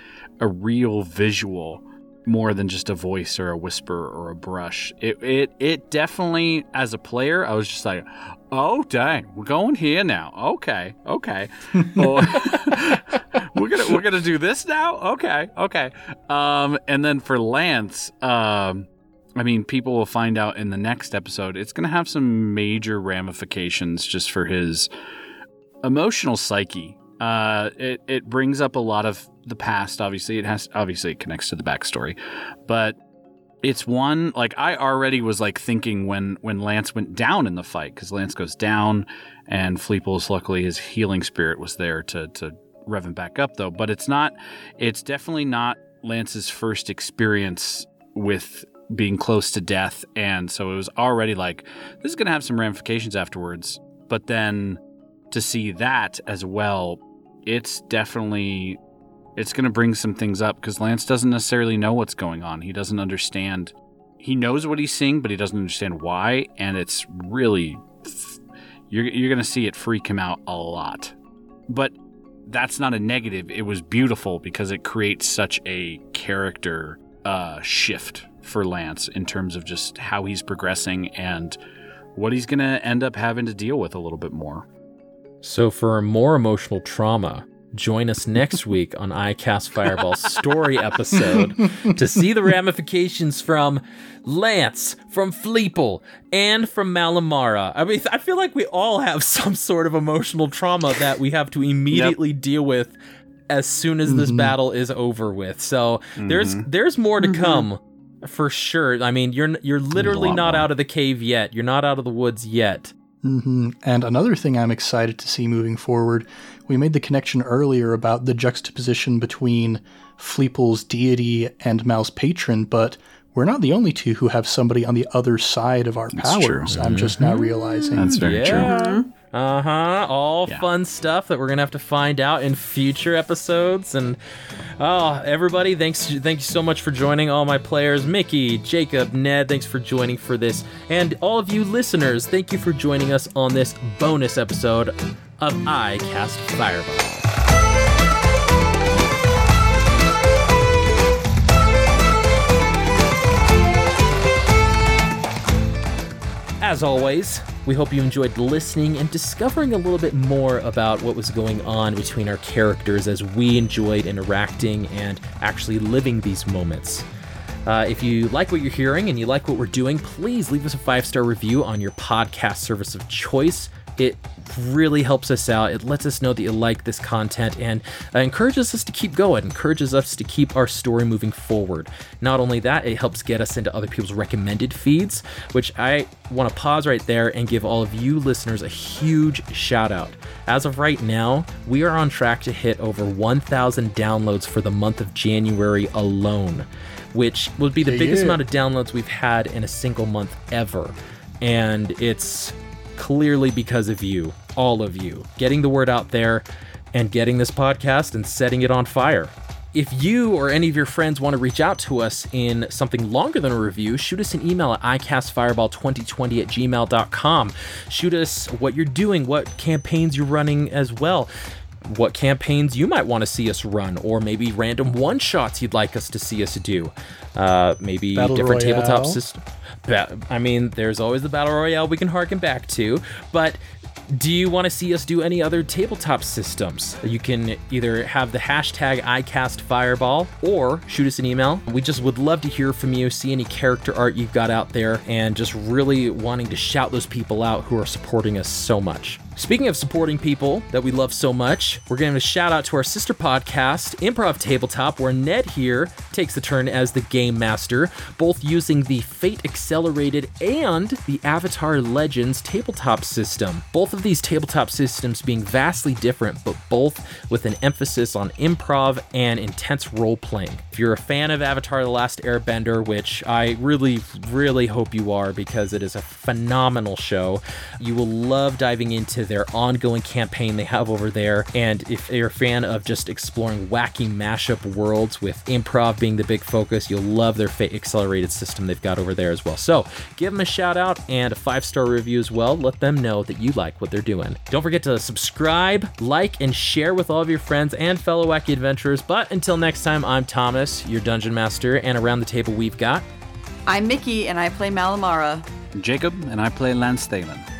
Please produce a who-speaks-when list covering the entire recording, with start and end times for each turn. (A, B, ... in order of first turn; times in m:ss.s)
0:00.4-0:24.9 A
0:11.8-0:12.1 B
0:25.8-0:33.0 A
0:33.6-0:54.8 A
0:55.3-0:58.8 A
0:59.4-1:08.4 A
1:08.9-1:11.2 A
1:11.7-1:12.0 A
1:12.5-1:21.6 A
1:22.2-1:24.7 A
1:25.4-1:43.0 C
1:31.3-1:32.0 B
1:43.5-1:52.9 C
1:44.1-1:44.6 B
1:46.2-1:46.7 A
1:47.2-1:47.7 D
1:50.0-1:50.7 A
1:53.2-2:08.4 B
2:06.1-2:07.4 A
2:06.7-2:07.2 C
2:08.0-2:08.7 A
2:08.0-2:14.2 C
2:08.4-2:09.1 D
2:14.8-2:27.3 C
2:36.6-2:47.0 C
2:47.7-3:41.3 C
3:17.8-3:18.4 B
3:41.8-5:03.1 C
3:48.2-3:49.2 B
5:03.7-5:05.5 D
5:05.8-5:07.5 A